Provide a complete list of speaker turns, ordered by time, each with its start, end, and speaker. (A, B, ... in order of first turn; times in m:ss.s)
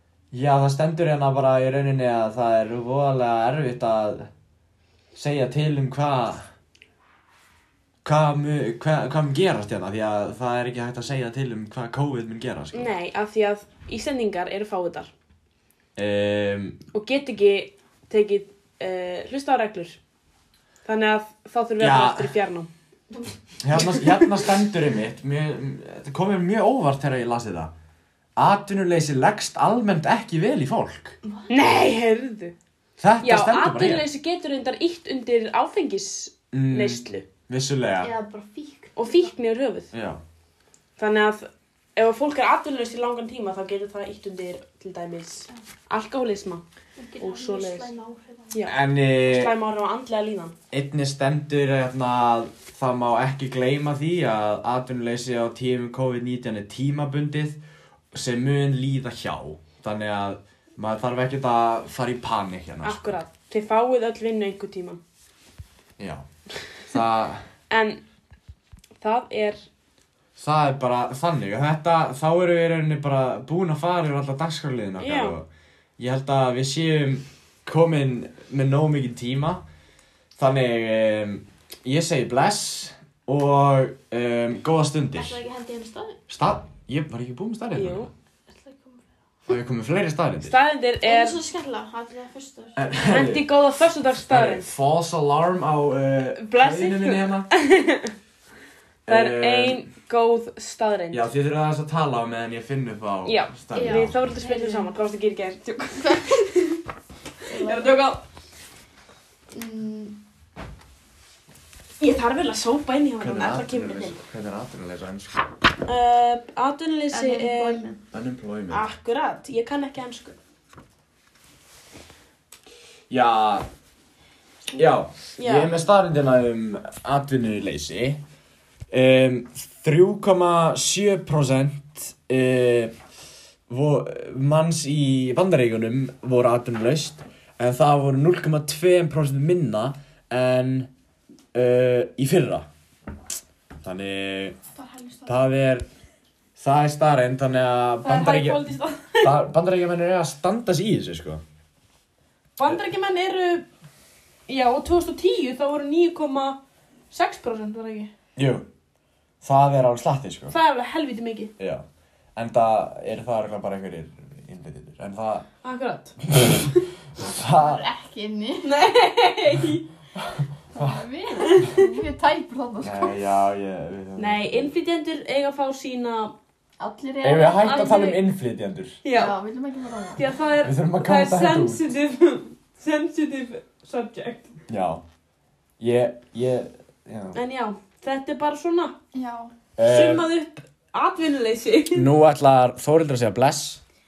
0:00.3-0:04.3 A
0:05.1-0:06.4 A
0:08.0-0:12.9 A
0:12.7-0:15.1 B
0:16.0-0:16.8 A
0:16.9-0:20.0 B
0:20.8-0:22.7 B
0:21.8-0:22.4 A
0:23.6-0:27.7 A
0:23.9-0:24.4 B
0:28.4-0:31.2 A
0:31.2-0:31.7 C
0:31.5-0:32.5 B
0:33.0-0:34.1 A
0:33.2-0:37.3 B
0:36.5-0:38.1 A
0:38.0-0:39.3 C
0:39.0-0:39.9 B
0:39.9-0:40.2 A
0:41.0-0:46.6 B
0:47.0-0:48.7 C
0:47.2-0:47.9 B
0:48.5-0:50.5 B
0:48.6-0:49.5 A
0:50.7-0:57.6 A
0:58.1-1:03.1 A
1:02.8-1:05.0 B
1:06.0-1:06.2 A
1:06.9-1:07.4 A
1:07.7-1:08.0 B
1:09.0-1:09.6 B
1:10.4-1:15.5 A
1:15.0-1:15.4 B
1:16.0-1:19.6 A
1:20.4-1:25.4 A
1:25.1-1:26.2 C
1:26.3-1:28.1 A
1:27.7-1:28.1 B
1:28.5-1:29.0 C
1:29.5-1:30.5 A
1:30.4-1:31.4 B
1:31.0-1:32.9 C
1:32.8-1:33.5 A
1:33.0-1:34.7 B
1:34.1-1:37.5 A
1:36.4-1:38.1 B
1:39.1-1:39.9 A
1:39.1-1:41.2 B
1:41.1-1:44.2 A
1:43.2-1:46.8 B
1:43.7-1:44.9 C
1:46.0-1:46.4 C
1:47.4-1:48.1 C
1:47.5-1:48.2 B
1:49.5-1:50.2 C
1:52.0-1:54.2 B
1:53.2-1:55.4 A
1:55.8-1:57.9 B
1:57.1-1:58.0 C
1:58.1-1:58.9 A
1:58.7-2:00.4 B
2:03.1-2:03.7 A
2:04.7-2:08.2 A
2:05.4-2:05.8 B
2:08.9-2:12.9 A
2:13.7-2:20.9 A
2:21.5-2:22.6 A
2:23.8-2:24.6 A
2:24.8-2:25.4 C
2:25.3-2:25.8 A
2:26.6-2:28.6 A
2:28.0-2:29.3 B
2:29.2-2:31.4 A
2:32.6-2:33.7 B
2:34.5-2:36.6 B
2:37.1-2:38.1 B
2:38.4-2:38.7 A
2:39.4-2:40.6 A
2:40.5-2:41.5 B
2:41.6-2:41.8 A
2:42.4-2:45.4 A
2:45.6-2:46.2 B
2:46.2-2:47.8 A
2:47.4-2:48.8 C
2:48.6-2:49.8 B
2:50.3-2:51.0 A
2:50.7-2:53.2 C
2:51.4-2:52.0 B
2:52.8-2:54.7 A
2:54.2-2:56.3 B
2:56.8-2:58.1 C
2:57.2-2:59.0 A
2:57.6-2:58.2 B
2:59.0-2:59.4 B
2:59.1-3:00.2 C
3:00.1-3:04.5 B
3:00.6-3:01.8 A
3:04.7-3:05.0 A
3:05.8-3:07.4 A
3:07.3-3:08.9 B
3:09.1-3:09.5 C
3:09.8-3:10.2 A
3:09.8-3:12.1 B
3:11.9-3:13.8 A